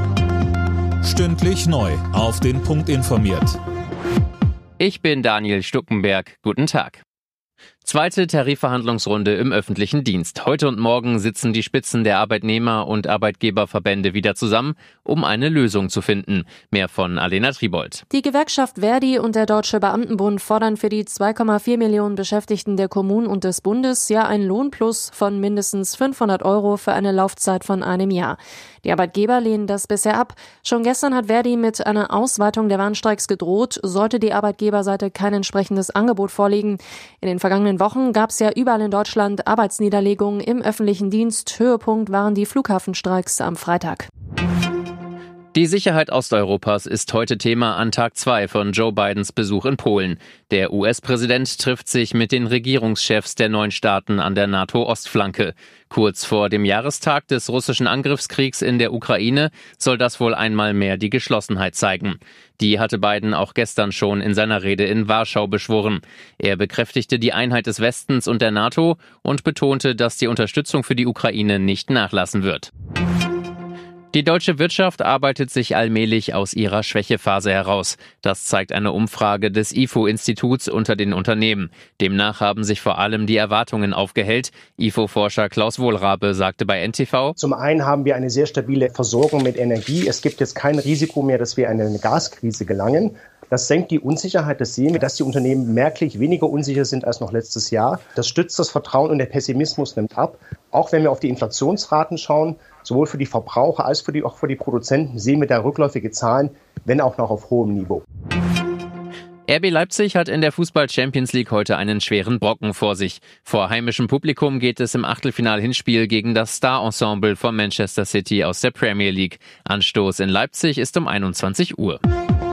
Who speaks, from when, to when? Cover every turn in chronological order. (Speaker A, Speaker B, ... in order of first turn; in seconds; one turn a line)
Speaker A: 1.0-3.6
Speaker B: 4.8-7.0
Speaker B: 7.8-18.0
Speaker C: 18.1-44.1
Speaker B: 45.5-72.7
Speaker B: 74.1-87.3
Speaker D: 87.4-108.0
Speaker B: 109.5-122.0